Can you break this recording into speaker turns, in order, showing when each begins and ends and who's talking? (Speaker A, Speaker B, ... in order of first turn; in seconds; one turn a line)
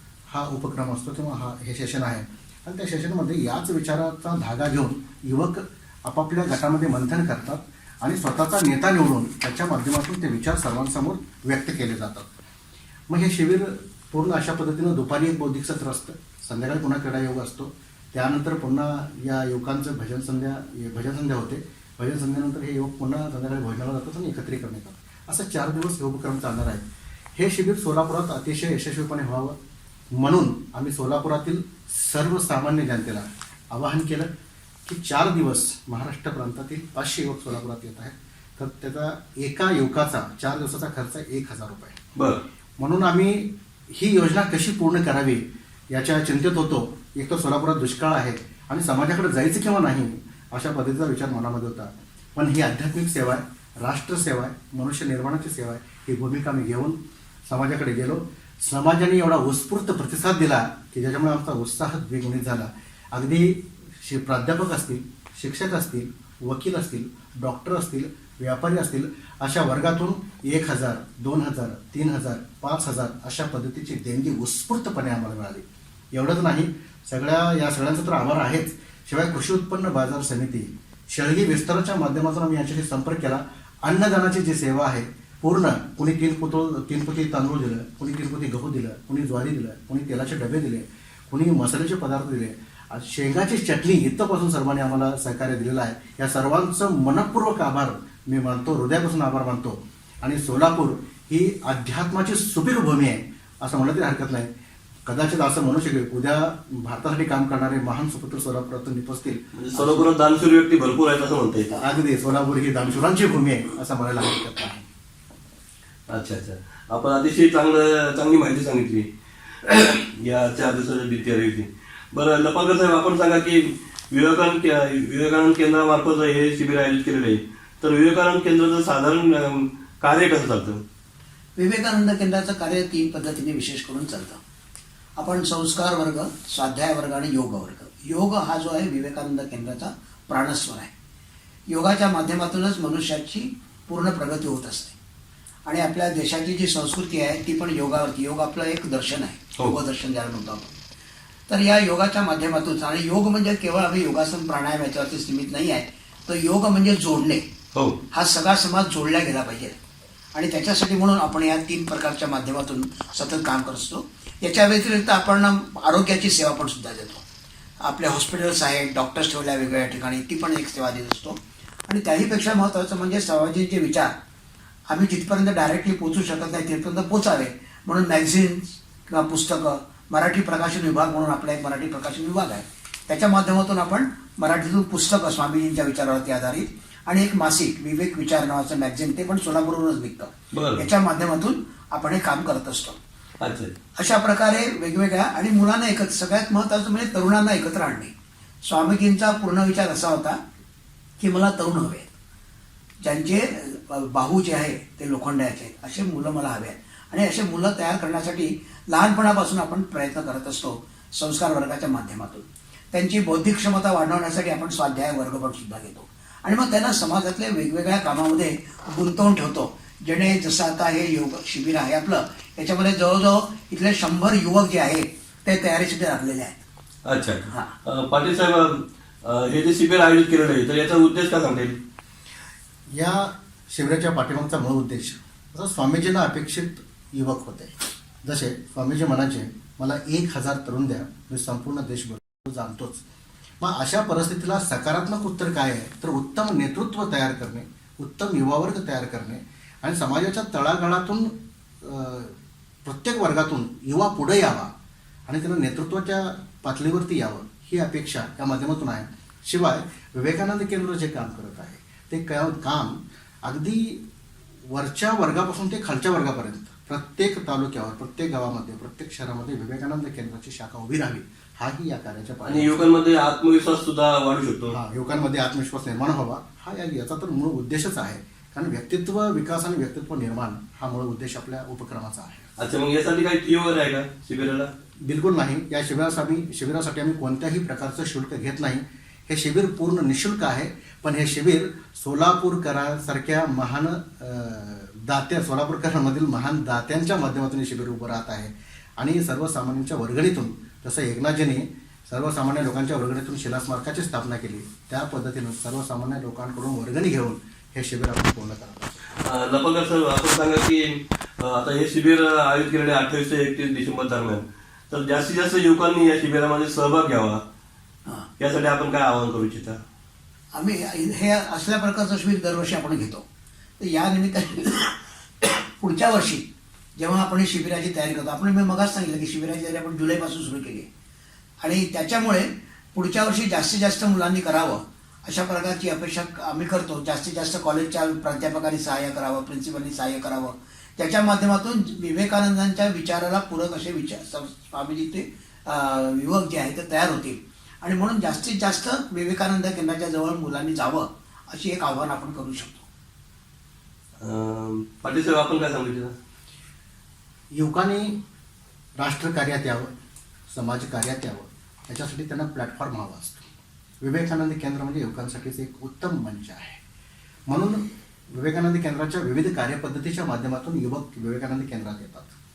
Speaker A: 0.3-12.3
Speaker A: 13.1-29.6
Speaker A: 30.1-34.3
Speaker A: 34.9-42.0
Speaker B: 42.2-42.4
Speaker A: 42.8-104.5
Speaker A: 105.1-110.1
Speaker B: 109.6-111.8
Speaker A: 111.8-114.9
Speaker B: 116.1-119.1
Speaker B: 119.6-130.8
Speaker C: 131.6-134.4
Speaker C: 135.2-140.9
Speaker C: 141.7-145.0
Speaker C: 145.7-150.7
Speaker C: 151.5-157.5
Speaker B: 157.7-158.0
Speaker C: 158.1-159.8
Speaker C: 160.3-167.2
Speaker C: 167.8-174.1
Speaker C: 174.9-193.0
Speaker B: 190.5-190.9
Speaker B: 193.4-193.7
Speaker C: 194.0-198.1
Speaker C: 198.7-200.4
Speaker C: 201.2-202.1
Speaker C: 203.0-226.6
Speaker B: 227.1-231.8
Speaker C: 227.5-227.8
Speaker A: 232.9-243.0
Speaker A: 243.6-254.7
Speaker A: 255.3-264.0
Speaker A: 264.7-272.8
Speaker B: 272.4-274.8
Speaker A: 274.7-282.5
Speaker B: 282.6-284.7
Speaker A: 285.0-309.0
Speaker B: 309.2-317.4
Speaker B: 318.4-319.8
Speaker C: 320.5-323.2
Speaker C: 323.8-326.5
Speaker C: 327.0-330.9
Speaker C: 331.6-352.9
Speaker B: 354.2-356.2
Speaker A: 357.5-358.2
Speaker A: 359.0-359.9
Speaker A: 360.5-363.4
Speaker A: 364.0-366.8
Speaker A: 367.5-372.4